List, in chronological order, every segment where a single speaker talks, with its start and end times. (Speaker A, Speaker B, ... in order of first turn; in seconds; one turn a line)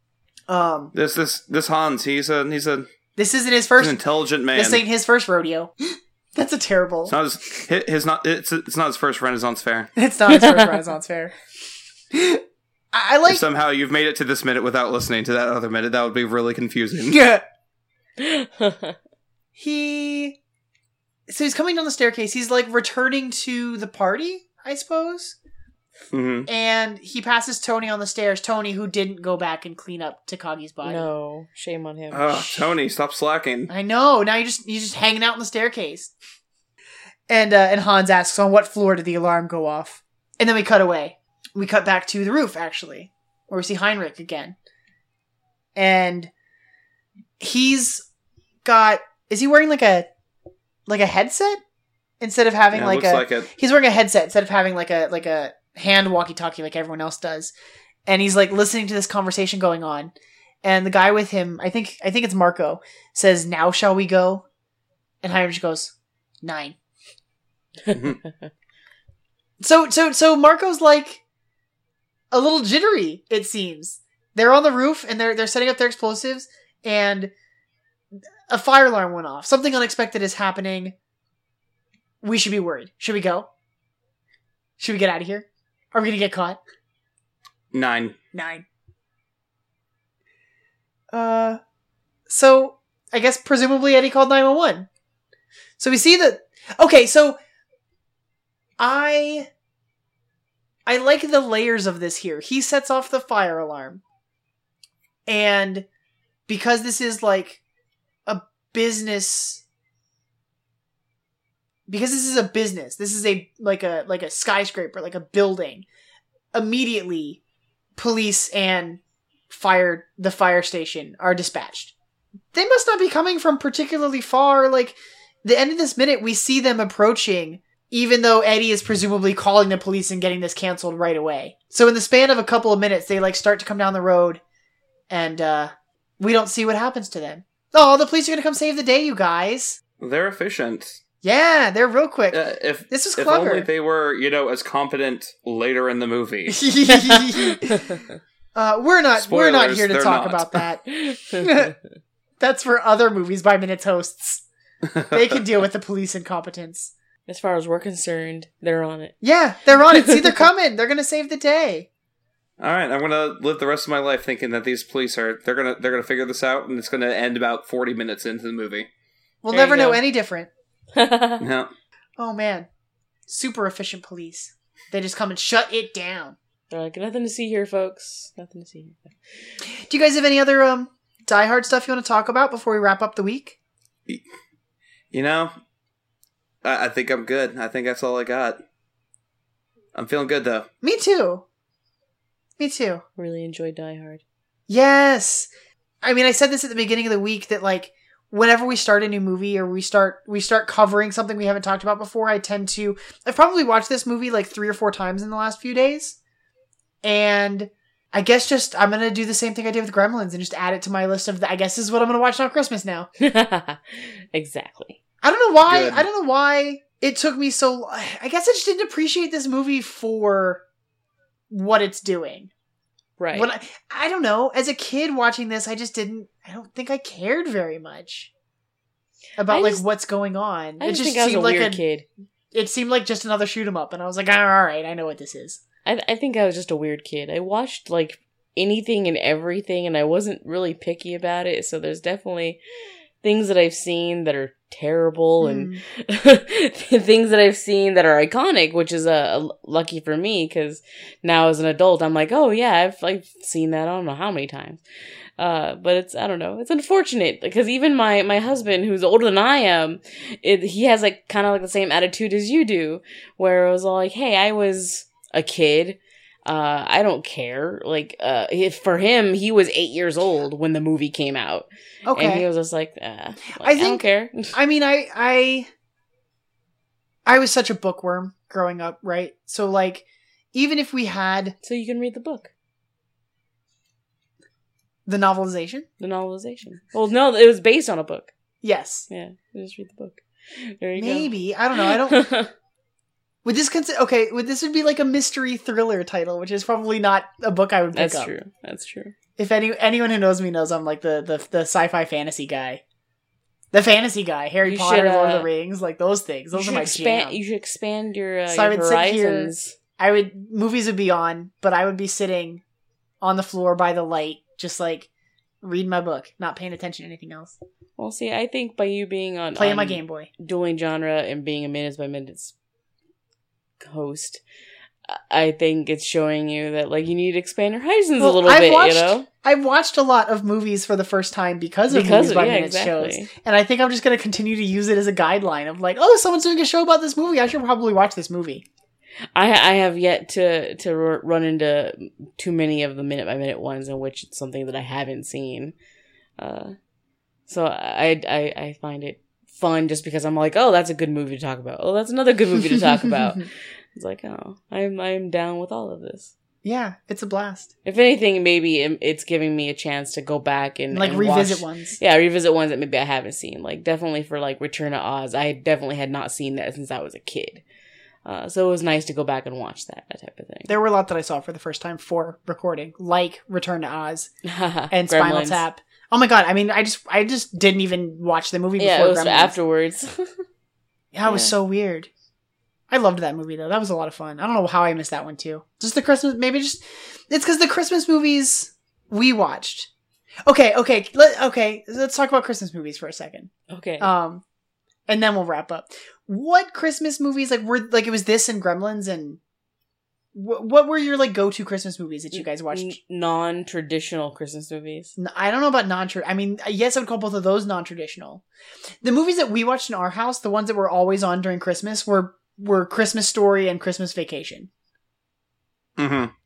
Speaker A: 0.5-0.9
Speaker B: 0.9-2.9
Speaker A: 3.1-4.0
Speaker B: 3.8-4.8
Speaker A: 4.5-5.7
Speaker A: 6.3-7.1
Speaker B: 7.1-9.9
Speaker A: 9.9-11.3
Speaker C: 10.3-10.7
Speaker A: 12.1-13.4
Speaker B: 13.2-17.2
Speaker A: 17.1-17.4
Speaker C: 18.2-19.0
Speaker A: 19.6-20.4
Speaker A: 21.3-25.4
Speaker B: 26.1-26.5
Speaker A: 26.4-31.0
Speaker C: 30.8-32.5
Speaker B: 32.1-33.7
Speaker A: 33.7-36.1
Speaker A: 37.3-44.5
Speaker A: 45.7-46.3
Speaker A: 47.4-48.0
Speaker A: 48.6-50.1
Speaker A: 50.9-51.6
Speaker A: 52.2-57.5
Speaker B: 52.7-53.5
Speaker A: 58.0-64.4
Speaker A: 65.2-66.8
Speaker B: 67.9-68.2
Speaker A: 69.6-71.2
Speaker A: 72.3-77.3
Speaker A: 78.5-80.9
Speaker A: 82.2-83.5
Speaker A: 84.8-86.6
Speaker B: 87.7-88.2
Speaker A: 88.3-88.6
Speaker A: 91.1-91.6
Speaker A: 92.3-94.9
Speaker A: 95.8-97.4
Speaker A: 98.8-99.5
Speaker A: 100.8-104.0
Speaker A: 105.2-105.8
Speaker A: 106.5-107.6
Speaker A: 108.3-109.6
Speaker A: 111.9-115.8
Speaker A: 116.5-117.4
Speaker A: 118.0-121.9
Speaker A: 122.5-134.4
Speaker A: 135.1-139.8
Speaker B: 140.0-141.0
Speaker A: 141.2-143.7
Speaker B: 142.3-146.6
Speaker A: 146.5-147.9
Speaker C: 147.0-148.1
Speaker A: 148.5-151.7
Speaker B: 149.2-150.6
Speaker C: 150.9-151.7
Speaker A: 152.4-154.4
Speaker B: 154.9-155.1
Speaker A: 155.1-156.9
Speaker C: 157.3-159.1
Speaker A: 159.2-161.9
Speaker C: 159.9-160.3
Speaker B: 162.6-168.9
Speaker A: 169.4-170.5
Speaker C: 169.5-170.0
Speaker C: 170.9-171.4
Speaker B: 171.4-171.7
Speaker A: 172.2-172.7
Speaker A: 173.3-176.3
Speaker C: 176.7-179.1
Speaker A: 179.8-183.6
Speaker B: 185.1-185.5
Speaker B: 186.6-188.6
Speaker B: 189.9-190.7
Speaker A: 190.8-191.4
Speaker A: 192.6-193.0
Speaker C: 193.2-194.2
Speaker A: 194.7-195.5
Speaker A: 196.0-206.2
Speaker A: 207.0-213.1
Speaker C: 213.2-215.0
Speaker A: 215.2-220.6
Speaker B: 215.7-216.0
Speaker A: 221.5-222.5
Speaker C: 223.2-223.5
Speaker A: 223.3-228.3
Speaker A: 229.4-231.8
Speaker C: 229.4-229.8
Speaker C: 230.8-232.1
Speaker A: 232.5-235.6
Speaker C: 235.8-242.6
Speaker C: 243.2-254.8
Speaker A: 245.4-245.8
Speaker C: 255.4-274.5
Speaker A: 272.1-272.4
Speaker A: 273.6-275.7
Speaker A: 277.2-281.5
Speaker C: 281.6-282.5
Speaker A: 285.1-285.9
Speaker C: 286.0-288.3
Speaker A: 288.6-289.1
Speaker C: 289.1-291.3
Speaker A: 291.0-292.3
Speaker C: 291.8-292.5
Speaker A: 293.4-298.3
Speaker C: 297.9-299.1
Speaker A: 299.4-302.8
Speaker A: 303.7-307.4
Speaker C: 304.6-305.5
Speaker C: 306.5-309.7
Speaker A: 308.5-312.6
Speaker A: 313.2-315.1
Speaker A: 315.6-317.6
Speaker C: 318.0-322.5
Speaker A: 319.5-320.3
Speaker C: 323.8-324.4
Speaker C: 325.1-329.2
Speaker A: 328.2-338.6
Speaker C: 331.9-333.3
Speaker C: 339.3-345.7
Speaker C: 346.4-346.8
Speaker C: 347.5-356.3
Speaker A: 352.8-353.4
Speaker A: 356.6-357.7
Speaker C: 357.8-367.6
Speaker A: 360.9-362.0
Speaker C: 368.2-370.7
Speaker A: 370.7-374.3
Speaker C: 374.4-375.6
Speaker A: 374.9-379.5
Speaker C: 378.8-380.4
Speaker A: 381.1-382.1
Speaker C: 381.3-381.5
Speaker A: 382.9-389.9
Speaker A: 390.4-394.4
Speaker C: 393.7-394.1
Speaker A: 395.1-399.4
Speaker A: 400.3-403.0
Speaker C: 402.3-405.1
Speaker A: 405.2-408.4
Speaker A: 409.0-414.7
Speaker B: 416.0-416.3